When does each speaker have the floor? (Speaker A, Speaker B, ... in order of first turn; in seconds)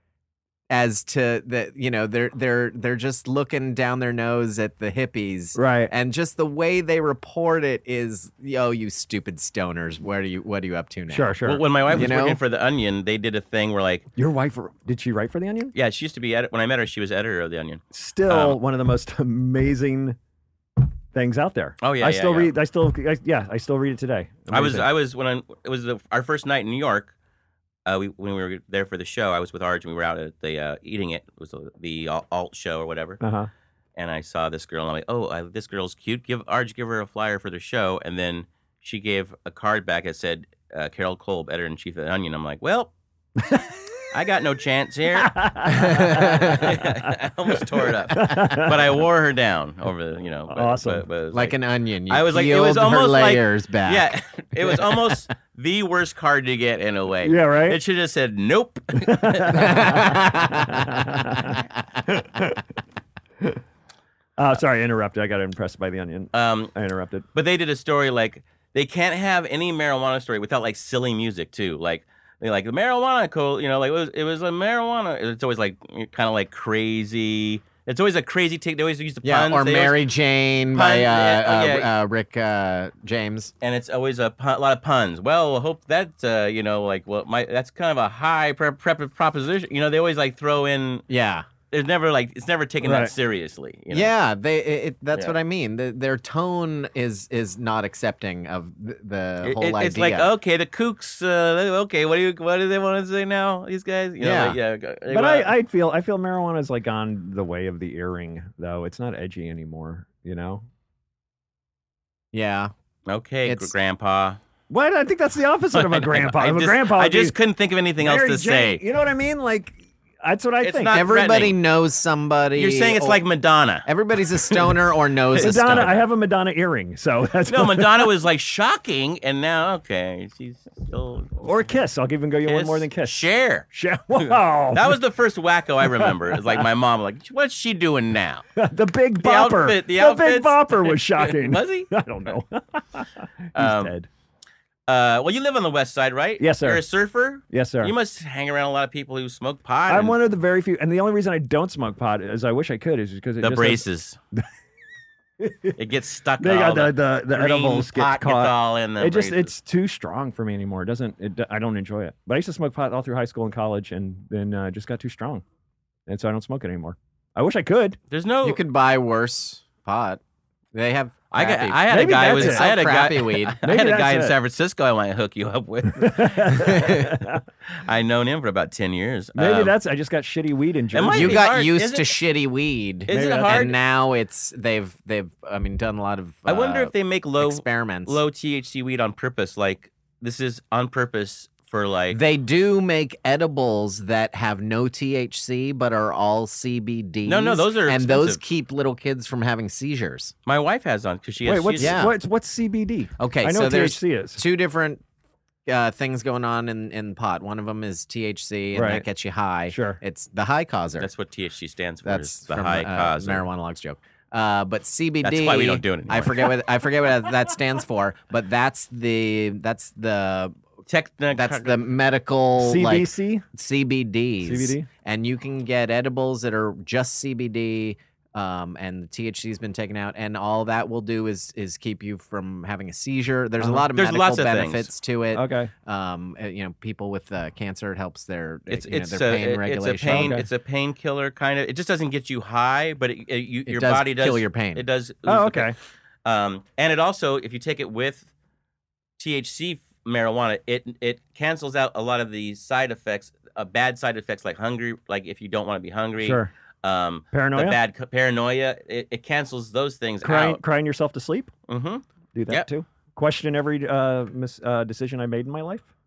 Speaker A: 0.7-12.4, 45.7-46.7, 51.3-54.1, 59.5-60.9, 79.2-83.5, 91.1-91.5, 93.9-100.3, 104.2-104.6, 112.3-112.7, 113.5-113.7, 120.9-123.2, 123.8-126.0, 168.4-170.2, 170.7-173.6, 176.6-177.2, 181.1-188.2, 192.1-200.3, 201.8-202.1, 203.2-205.0, 205.7-211.1, 212.1-220.6, 221.3-240.4, 243.7-244.8
Speaker B: 5.5-5.9, 11.1-11.6, 14.2-15.7, 17.9-20.2, 21.1-24.9, 33.2-33.5, 43.4-43.7, 45.2-47.1, 48.1-48.8, 50.5-51.0, 57.2-57.8, 59.0-62.6, 64.4-67.2, 92.8-93.1, 105.1-110.7, 114.7-117.3, 118.0-121.0, 125.4-128.1, 131.4-135.0, 136.0-136.6, 138.6-144.1, 146.4-146.8, 147.5-147.9, 149.9-153.8, 155.4-155.8, 156.4-165.4, 166.1-168.0, 171.9-172.7, 173.6-174.3, 176.0-177.4, 179.4-181.4, 183.1-183.7, 201.4-204.4, 208.7-209.0, 209.7-210.0, 222.6-223.4, 224.4-224.9, 233.6-233.9, 235.3-235.7, 240.1-240.5, 245.3-245.8, 256.2-256.5, 257.3-257.8, 260.2-261.5, 262.3-265.9
Speaker C: 11.4-14.1, 15.8-18.6, 21.8-22.5, 24.5-27.1, 27.9-33.2, 34.0-42.9, 44.1-51.6, 52.1-59.9, 66.3-66.7, 67.3-80.0, 80.7-81.9, 83.6-91.0, 91.7-94.1, 99.4-105.5, 113.1-114.4, 115.7-118.8, 120.6-121.6, 122.6-123.9, 125.5-125.9, 127.5-131.5, 132.5-133.7, 134.2-138.4, 139.2-141.9, 143.6-143.9, 144.9-150.2, 153.4-154.2, 155.8-159.6, 168.1-168.6, 171.3-176.8, 177.8-179.7, 180.9-182.2, 183.1-183.8, 186.5-192.2, 197.3-198.4, 200.5-202.1, 211.0-213.4, 215.2-216.5, 220.9-221.8, 233.9-234.9, 238.7-245.7, 246.2-248.3, 249.2-260.6, 261.7-262.7